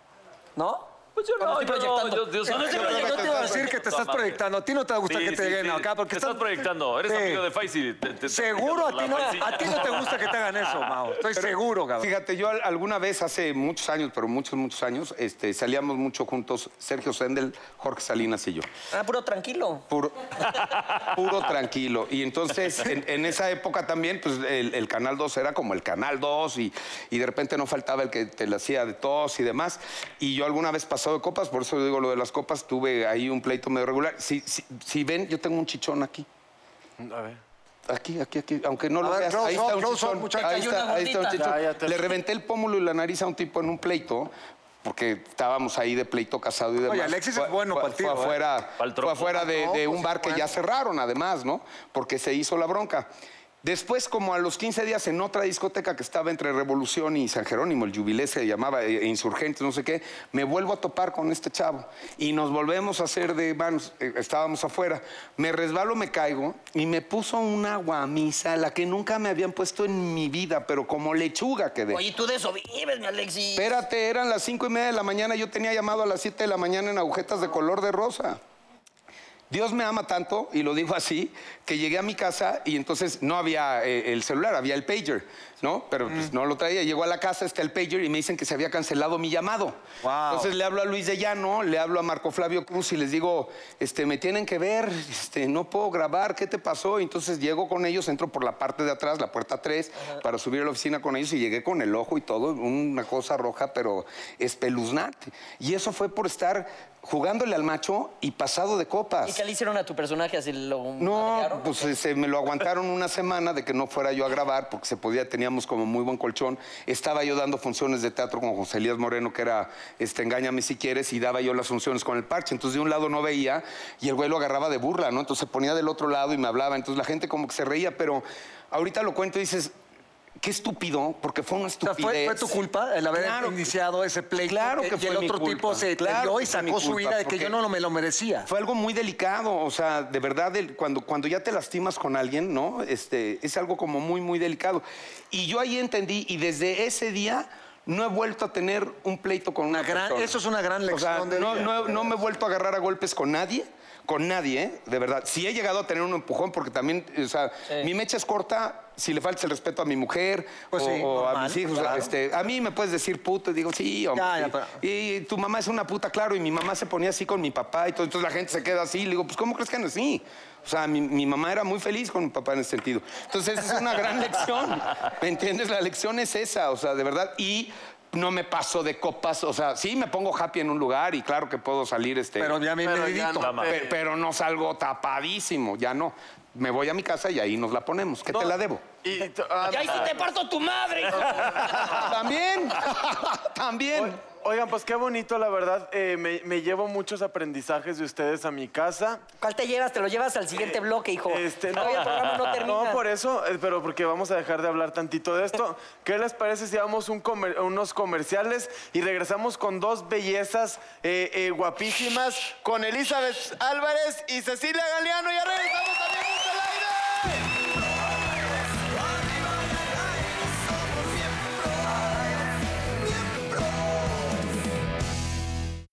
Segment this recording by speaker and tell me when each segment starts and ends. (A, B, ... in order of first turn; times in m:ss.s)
0:00.6-0:03.2 A
0:01.2-0:04.4 B
0:02.5-0:07.5 C
0:02.7-0:03.6 D
0:05.1-0:10.4 B
0:08.3-0:12.1 C
0:11.4-0:18.7 D
0:18.9-0:19.8 A
0:19.9-0:36.3 D
0:37.0-0:37.4 E
0:37.9-0:44.3 D
0:39.0-0:40.8 C
0:40.4-0:41.5 A
0:41.3-0:42.2 E
0:44.8-0:53.1 D
0:46.9-0:48.4 C
0:48.8-0:49.7 B
0:49.4-0:50.5 C
0:53.6-1:12.0 D
1:11.9-1:13.8 A
1:13.6-1:18.4 D
1:19.5-1:29.8 D
1:30.0-1:30.5 C
1:30.3-1:49.4 D
1:49.2-1:51.9 A
1:51.0-2:09.7 D
2:10.4-2:12.6 D
2:11.8-2:18.5 C
2:13.2-2:13.7 D
2:14.4-2:17.5 D
2:18.5-2:30.3 D
2:29.7-2:32.1 C
2:30.9-3:02.6 D
2:40.7-2:42.1 C
2:44.1-2:44.8 C
3:02.4-3:03.6 C
3:02.8-3:04.0 E
3:03.4-3:03.7 B
3:03.7-3:08.8 D
3:08.3-3:10.2 E
3:09.7-3:12.1 A
3:11.2-3:12.1 E
3:11.7-3:14.2 D
3:13.9-3:19.2 E
3:19.4-3:23.0 A
3:20.6-3:37.5 E